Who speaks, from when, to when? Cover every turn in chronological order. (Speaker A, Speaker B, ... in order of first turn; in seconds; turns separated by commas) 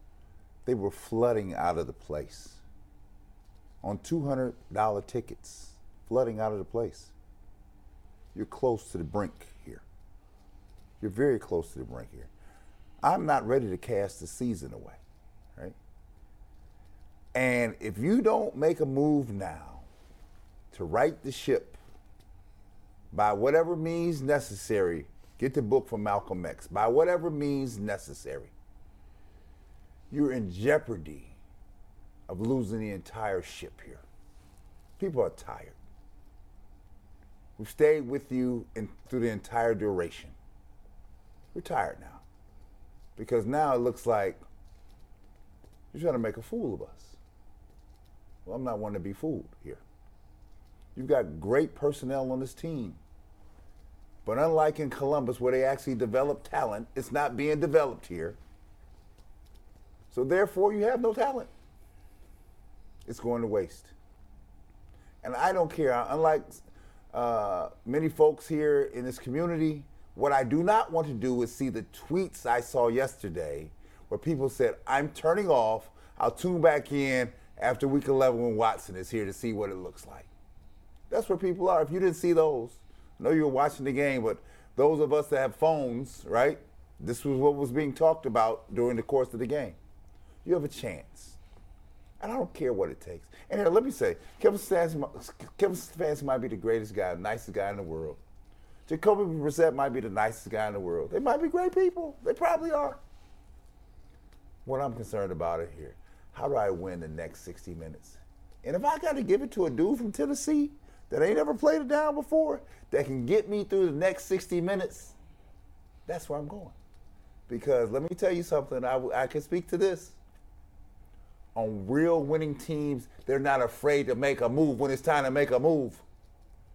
Speaker A: 0.6-2.6, Speaker A: 3.8-7.1, Speaker A: 8.3-9.8, Speaker A: 11.0-12.3, Speaker A: 13.0-15.0, Speaker A: 17.3-19.9, Speaker A: 20.7-21.8, Speaker A: 23.1-28.5, Speaker A: 30.1-31.3, Speaker A: 32.3-34.0, Speaker A: 35.0-35.8, Speaker A: 37.6-40.3, Speaker A: 41.5-42.2, Speaker A: 43.1-44.4, Speaker A: 45.9-47.2, Speaker A: 48.4-49.8, Speaker A: 50.9-53.0, Speaker A: 54.2-58.4, Speaker A: 60.1-61.5, Speaker A: 63.0-63.9, Speaker A: 65.2-80.3, Speaker A: 81.1-89.8, Speaker A: 90.4-91.4, Speaker A: 92.2-98.2, Speaker A: 98.9-103.0, Speaker A: 104.6-115.1, Speaker A: 116.0-116.7, Speaker A: 117.5-120.2, Speaker A: 121.5-126.0